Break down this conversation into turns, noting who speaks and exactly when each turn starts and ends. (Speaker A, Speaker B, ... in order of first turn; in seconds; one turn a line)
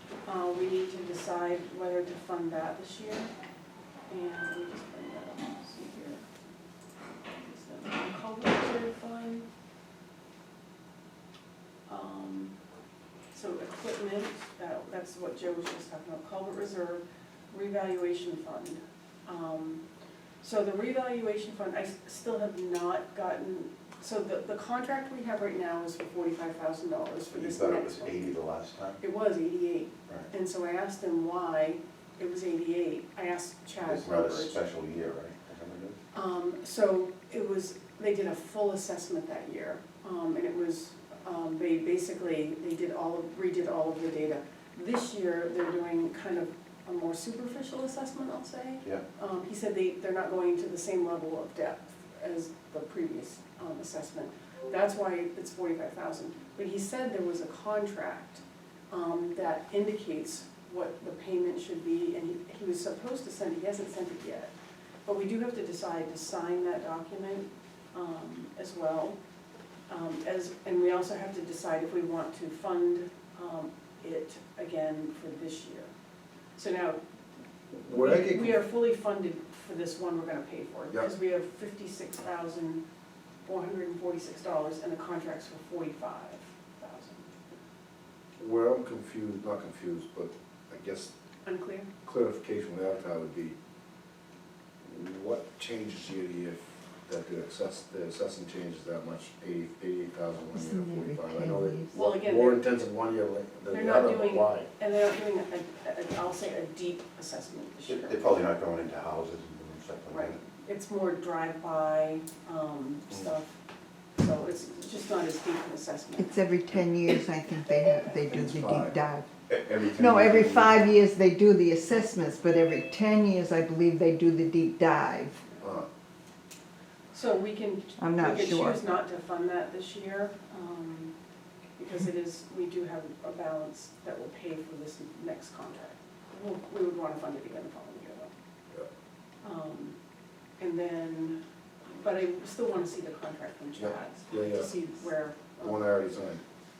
Speaker A: 0.3-3.3
Speaker A: 4.1-6.3
Speaker A: 7.3-9.5
Speaker A: 11.9-12.5
Speaker A: 13.3-19.8
Speaker A: 20.4-28.2
Speaker B: 27.3-29.0
Speaker A: 29.0-34.6
Speaker B: 33.8-36.0
Speaker A: 36.1-64.5
Speaker A: 65.1-69.2
Speaker A: 69.9-75.9
Speaker A: 76.6-77.0
Speaker C: 77.8-78.6
Speaker A: 78.0-82.8
Speaker A: 83.5-87.3
Speaker C: 88.4-91.1
Speaker A: 91.4-91.9
Speaker C: 92.0-93.6
Speaker C: 94.8-104.7
Speaker D: 100.5-101.9
Speaker A: 101.9-102.8
Speaker A: 103.7-108.2
Speaker B: 107.9-110.4
Speaker A: 110.1-113.6
Speaker A: 114.2-116.3
Speaker D: 116.2-119.3
Speaker B: 118.4-118.6
Speaker B: 119.5-120.8
Speaker D: 119.9-125.4
Speaker A: 127.1-131.1
Speaker D: 128.0-128.8
Speaker A: 131.8-138.3
Speaker A: 139.4-140.0
Speaker A: 140.6-145.8
Speaker C: 143.8-144.7
Speaker C: 145.6-146.4